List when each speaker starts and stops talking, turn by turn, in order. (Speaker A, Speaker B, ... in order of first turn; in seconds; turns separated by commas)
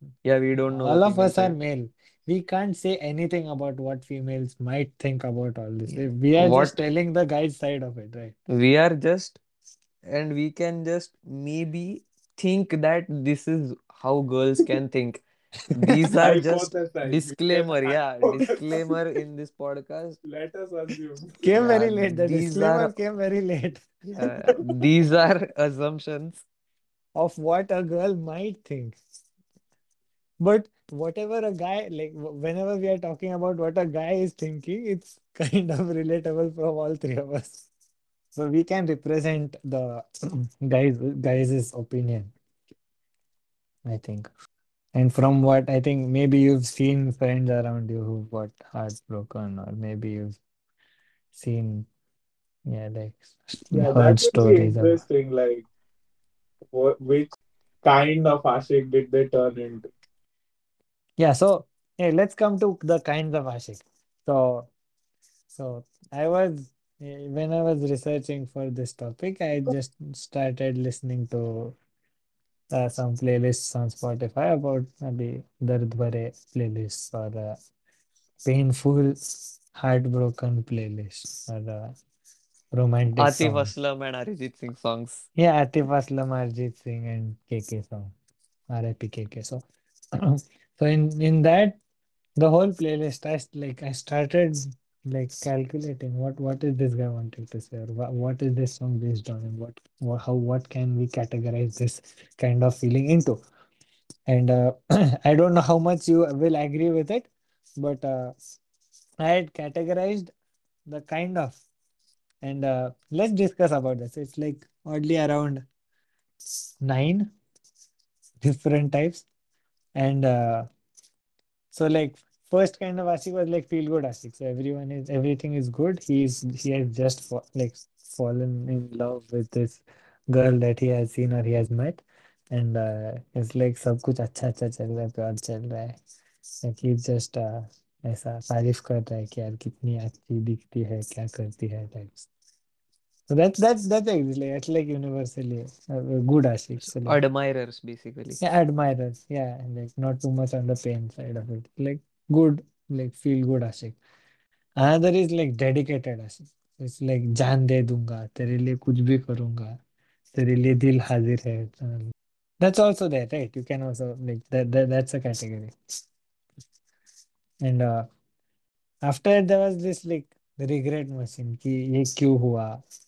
Speaker A: 0.2-1.6, Speaker B: 0.7-8.3, Speaker A: 5.9-6.8, Speaker A: 8.5-9.4, Speaker A: 10.1-15.2, Speaker A: 15.7-20.2, Speaker C: 16.2-18.9, Speaker C: 20.2-21.4, Speaker B: 21.4-23.9, Speaker A: 21.6-22.9, Speaker A: 24.1-26.4, Speaker B: 27.1-29.0, Speaker B: 30.4-37.7, Speaker B: 38.4-42.3, Speaker B: 43.8-44.3, Speaker B: 44.9-50.4, Speaker B: 51.3-51.9, Speaker B: 52.7-55.0, Speaker C: 53.7-55.6, Speaker C: 56.7-57.3, Speaker C: 57.8-59.9, Speaker B: 61.2-64.7, Speaker B: 65.5-71.8, Speaker B: 72.7-77.6, Speaker B: 78.4-82.0, Speaker B: 82.7-83.7, Speaker A: 83.2-85.2, Speaker B: 85.3-88.1, Speaker B: 88.7-89.7, Speaker B: 90.2-91.8, Speaker B: 92.4-103.4, Speaker B: 104.3-108.3, Speaker B: 109.2-110.3, Speaker B: 110.8-111.6, Speaker B: 112.4-115.7, Speaker B: 116.8-117.3, Speaker B: 118.4-119.2, Speaker B: 120.0-120.7, Speaker B: 121.7-136.0, Speaker B: 136.6-142.3, Speaker B: 143.3-147.2, Speaker A: 146.9-148.4, Speaker B: 148.4-154.0, Speaker B: 154.8-159.8, Speaker B: 160.3-165.7, Speaker B: 167.6-168.1, Speaker B: 169.0-172.8